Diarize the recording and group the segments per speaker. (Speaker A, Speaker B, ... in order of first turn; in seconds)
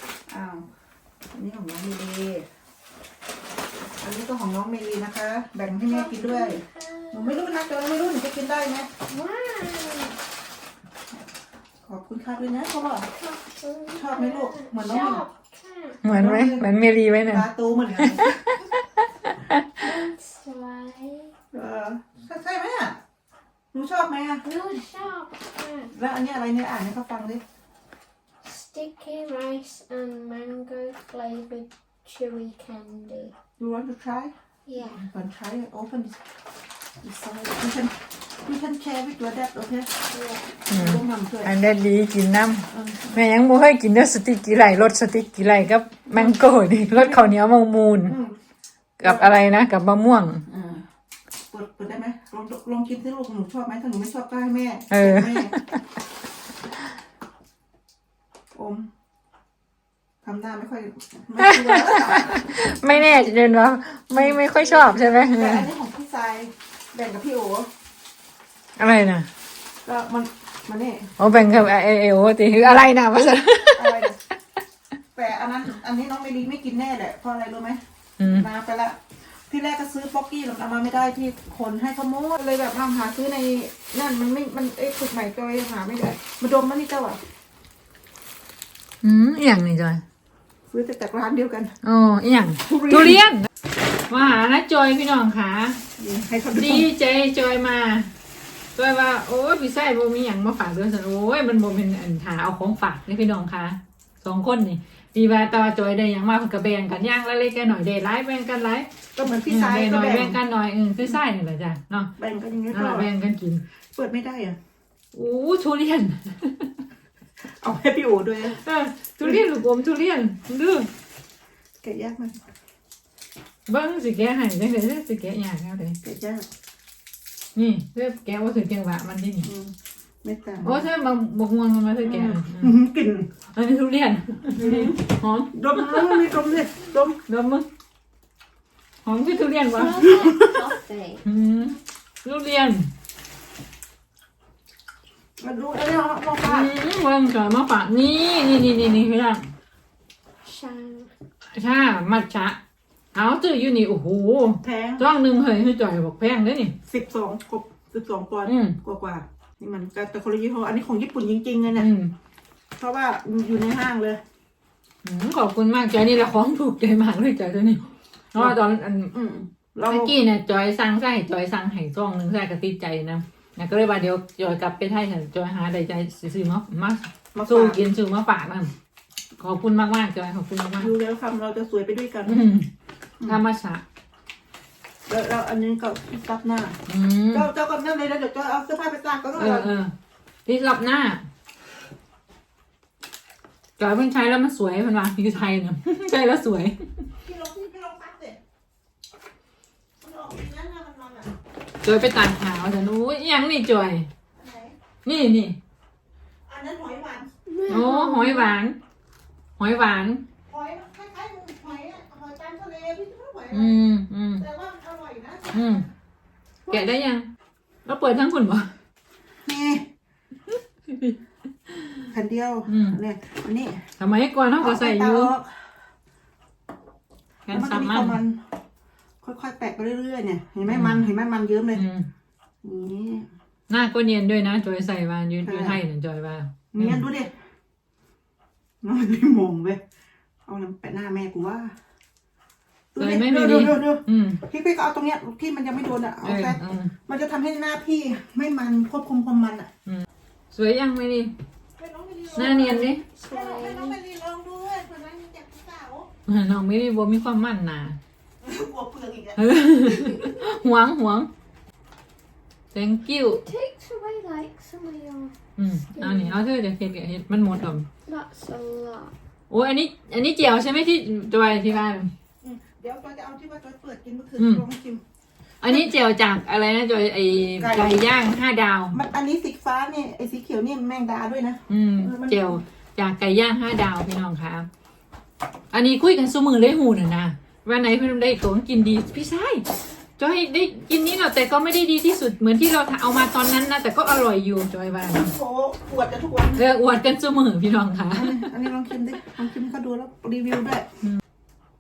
Speaker A: 0.3-0.7, 1.3-2.5, 4.0-8.9, 11.8-13.1, 13.9-15.2, 16.1-16.7, 17.2-18.7, 21.5-23.0, 23.7-24.4, 25.9-27.4, 33.6-36.2, 37.0-39.9, 40.7-41.5, 42.7-43.2, 46.9-47.2, 48.1-48.3, 49.0-49.3, 50.5-50.8, 51.5-55.5, 58.5-58.9, 60.2-63.3, 64.1-67.7, 69.8-71.2, 73.7-74.2, 75.1-87.2, 90.7-91.7, 92.7-93.2, 96.0-96.9, 109.1-110.4, 112.2-113.1, 113.9-114.6, 117.4-118.6, 121.8-122.4, 126.0-126.5, 129.4-129.7, 130.2-130.9, 132.0-133.3, 134.5-137.2, 140.0-140.5, 145.4-146.7, 154.6-155.0, 156.9-161.9, 162.8-164.2, 169.1-170.1, 177.3-177.8, 180.8-182.4, 185.1-186.8, 187.3-189.7, 197.2-198.4, 200.0-201.3, 204.3-204.7, 206.5-207.3, 210.4-215.9, 219.4-219.9, 222.1-223.8, 224.6-225.7, 227.5-228.4, 229.2-231.8, 232.6-233.3, 235.4-235.8, 236.7-237.3, 238.8-239.8, 240.4-241.7, 242.9-249.7, 251.8-256.1, 258.4-260.3, 272.4-275.0, 277.6-278.0, 278.9-282.6, 295.2-296.6, 298.1-300.9
Speaker B: 5.8-7.3, 9.1-10.2, 13.1-16.0, 19.8-21.3, 24.4-25.9, 28.4-33.3, 34.7-35.0, 40.1-40.4, 139.7-141.2, 150.4-151.1, 207.5-208.5, 253.0-254.0, 263.3-265.4, 265.9-266.4, 268.1-269.1
Speaker C: 16.0-17.4, 18.0-19.7, 40.7-48.1, 49.0-50.4, 54.9-55.8, 61.4-65.7, 68.8-69.3, 71.2-74.1, 78.2-78.5, 89.0-90.0, 91.8-93.5, 94.1-95.8, 96.5-98.1, 98.8-108.9, 109.5-112.1, 112.7-113.6, 115.1-116.8, 118.4-120.9, 123.7-126.0, 127.5-129.5, 130.6-132.7, 133.5-136.4, 137.3-137.7, 139.0-140.2, 141.2-142.9, 146.4-149.5, 151.5-152.6, 153.1-156.8, 158.4-158.8, 161.8-162.1, 165.0-169.1, 169.8-178.7, 179.4-180.9, 182.3-182.7, 183.2-183.8, 186.9-187.5, 189.3-189.9, 190.4-191.2, 193.8-196.8, 201.8-204.1, 205.0-205.6, 207.7-208.8, 209.6-210.2, 213.5-214.4, 215.5-215.8, 216.7-217.3, 217.8-218.7, 220.9-221.2, 222.7-223.0, 224.0-225.3, 227.5-228.2, 230.7-231.0, 231.7-232.1, 233.7-237.1, 243.0-244.4, 246.2-246.9, 249.8-251.3, 252.3-253.0, 256.3-258.0, 259.4-261.3, 262.7-263.4, 265.6-267.9, 269.5-272.1, 274.4-274.6, 275.6-279.0, 281.7-284.7, 285.7-289.6, 290.2-295.3, 296.6-298.5